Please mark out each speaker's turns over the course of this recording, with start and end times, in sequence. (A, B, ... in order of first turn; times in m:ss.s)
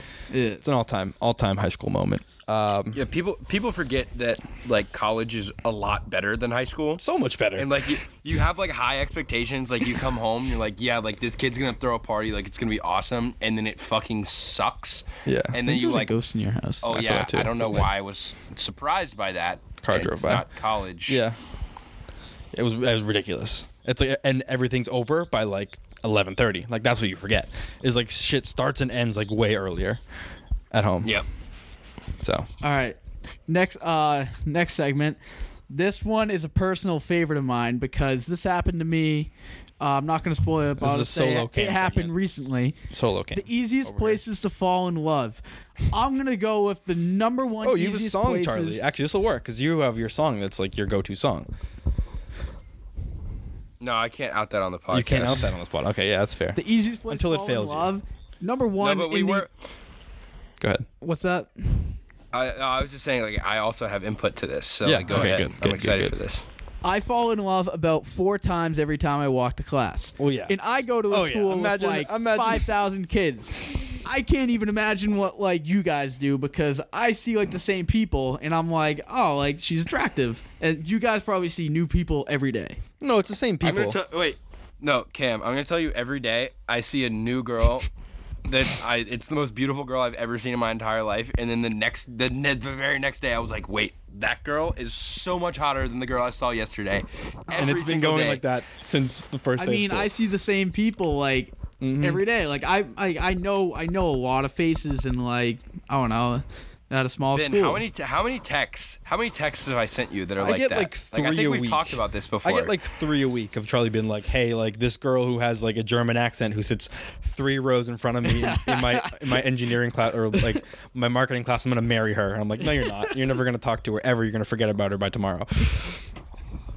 0:00.3-0:00.7 A
0:00.6-0:03.0 B
0:02.9-0:07.0 C
0:07.0-0:07.7 B
0:07.6-0:16.1 C
0:15.2-0:15.6 B
0:15.6-0:17.0 A
0:16.8-0:21.2 C
0:16.8-0:17.9 B
0:19.8-0:20.4 B
0:21.1-0:21.4 B
0:22.5-0:30.0 B
0:30.7-0:31.2 B
0:32.2-0:32.5 B
0:32.6-0:35.2 A
0:35.7-0:42.8 A
0:40.8-0:42.1 B
0:42.9-0:44.2 B
0:43.3-0:48.8 A
0:47.6-0:51.5 B
0:53.8-0:55.5 C
0:54.9-0:57.9 B
0:56.5-0:59.4 A
0:58.8-0:59.5 C
1:00.6-1:00.9 B
1:01.0-1:02.0 A
1:02.3-1:06.5 C
1:04.8-1:06.2 B
1:06.8-1:22.8 A
1:10.2-1:10.6 B
1:11.1-1:12.7 B
1:23.0-1:24.0 B
1:23.6-1:27.9 C
1:28.4-1:38.4 C
1:37.5-1:40.1 B
1:39.6-1:47.8 A
1:41.8-1:42.2 B
1:47.3-1:52.7 C
1:50.4-2:06.0 B
1:58.2-1:59.4 A